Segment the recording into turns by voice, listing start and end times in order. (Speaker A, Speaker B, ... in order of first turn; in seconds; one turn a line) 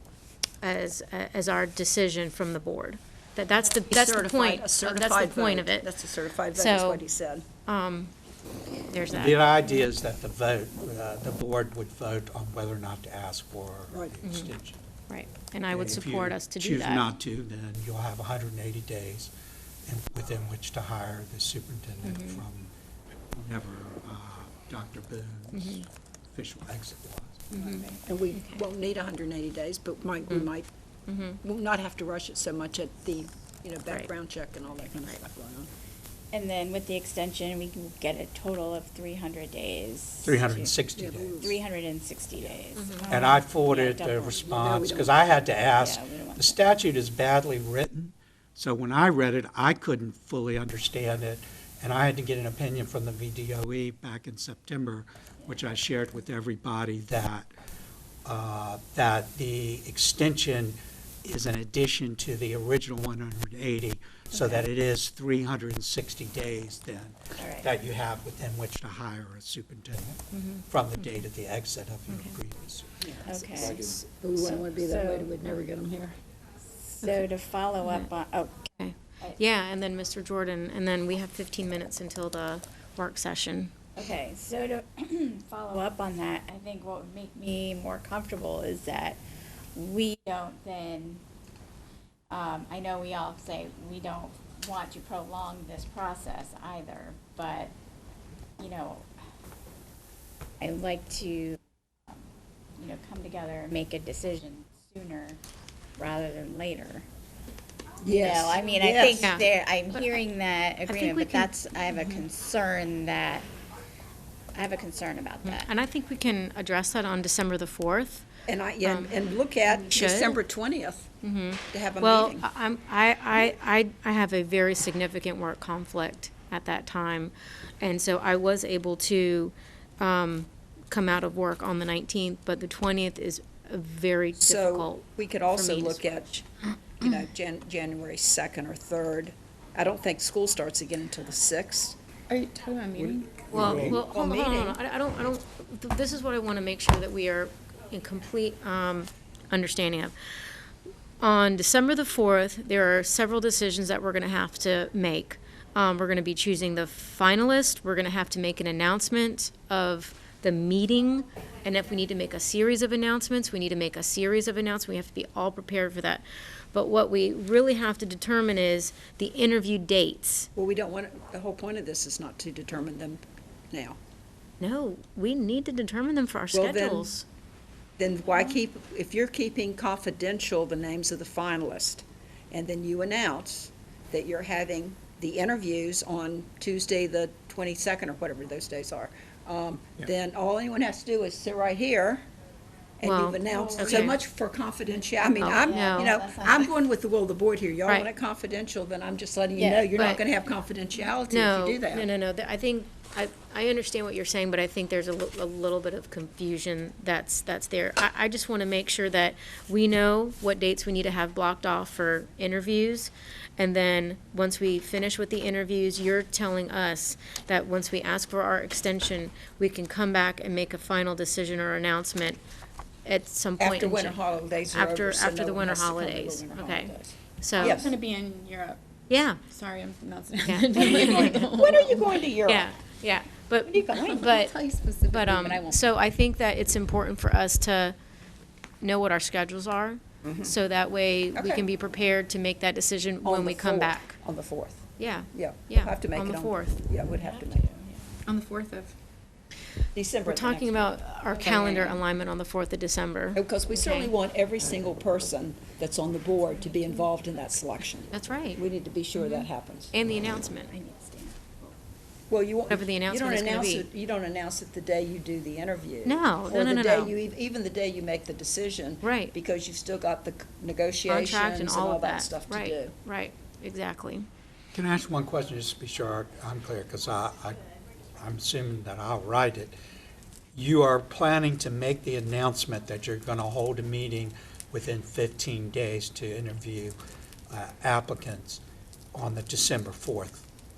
Speaker A: 0.6-5.9
Speaker B: 3.9-7.5
Speaker A: 6.5-7.0
Speaker A: 7.7-8.1
Speaker A: 8.9-9.4
Speaker C: 9.1-14.8
Speaker B: 13.9-14.2
Speaker A: 14.2-14.5
Speaker A: 15.1-17.1
Speaker C: 15.7-19.3
Speaker C: 19.9-22.7
Speaker A: 22.0-22.4
Speaker C: 23.3-27.5
Speaker A: 25.5-25.9
Speaker A: 27.5-28.6
Speaker B: 27.6-30.7
Speaker A: 31.1-31.4
Speaker B: 31.4-35.7
Speaker D: 36.3-40.8
Speaker C: 40.2-41.4
Speaker B: 41.0-41.6
Speaker D: 41.4-44.5
Speaker A: 42.8-43.1
Speaker C: 43.1-57.5
Speaker B: 44.5-45.1
Speaker D: 45.8-46.6
Speaker C: 58.2-73.1
Speaker D: 67.4-67.7
Speaker A: 70.3-71.2
Speaker A: 72.1-72.4
Speaker B: 73.0-76.2
Speaker D: 73.2-75.3
Speaker D: 76.7-79.4
Speaker A: 77.8-78.1
Speaker A: 78.8-83.7
Speaker D: 84.0-89.2
Speaker D: 89.8-91.2
Speaker D: 92.3-97.7
Speaker D: 98.6-99.2
Speaker D: 100.6-105.4
Speaker D: 106.0-107.1
Speaker B: 108.0-109.3
Speaker D: 108.1-113.5
Speaker A: 109.2-110.2
Speaker A: 110.9-111.5
Speaker D: 114.5-115.7
Speaker A: 115.4-118.3
Speaker B: 118.5-121.1
Speaker A: 118.8-120.4
Speaker A: 121.2-135.0
Speaker B: 121.7-122.4
Speaker B: 134.4-136.3
Speaker A: 135.6-136.5
Speaker B: 136.9-142.0
Speaker E: 142.3-144.8
Speaker A: 143.5-150.2
Speaker C: 143.5-144.0
Speaker A: 151.2-170.5
Speaker B: 170.6-174.0
Speaker A: 174.6-177.2
Speaker B: 176.5-177.1
Speaker B: 178.0-192.3
Speaker B: 193.0-202.1
Speaker A: 193.0-194.2
Speaker D: 193.5-194.1
Speaker D: 195.2-196.8
Speaker A: 195.4-196.2
Speaker D: 199.6-200.0
Speaker A: 199.9-200.2
Speaker A: 201.3-222.4
Speaker A: 223.1-224.2
Speaker B: 223.6-227.9
Speaker A: 224.7-227.8
Speaker E: 227.6-228.8
Speaker A: 229.1-229.4
Speaker E: 229.5-232.2
Speaker A: 230.4-231.5
Speaker B: 230.8-232.7
Speaker A: 232.4-238.0
Speaker D: 233.7-234.1
Speaker E: 234.0-235.6
Speaker D: 235.4-235.8
Speaker A: 238.8-244.2
Speaker B: 240.2-240.5
Speaker B: 241.3-241.7
Speaker B: 243.2-244.8
Speaker A: 245.0-246.8
Speaker B: 245.3-247.7
Speaker D: 247.1-248.1
Speaker E: 248.2-248.9
Speaker B: 249.9-251.9
Speaker A: 250.3-254.1
Speaker D: 251.3-251.9
Speaker B: 253.3-259.9
Speaker D: 256.6-256.9
Speaker A: 258.1-258.6
Speaker A: 259.1-260.7
Speaker D: 260.7-261.5
Speaker B: 262.3-272.9
Speaker A: 262.7-263.9
Speaker A: 266.0-267.1
Speaker A: 269.0-269.3
Speaker A: 271.1-274.3
Speaker C: 274.7-277.6
Speaker C: 278.2-279.8
Speaker C: 280.5-287.0
Speaker C: 287.5-288.6
Speaker C: 289.1-290.4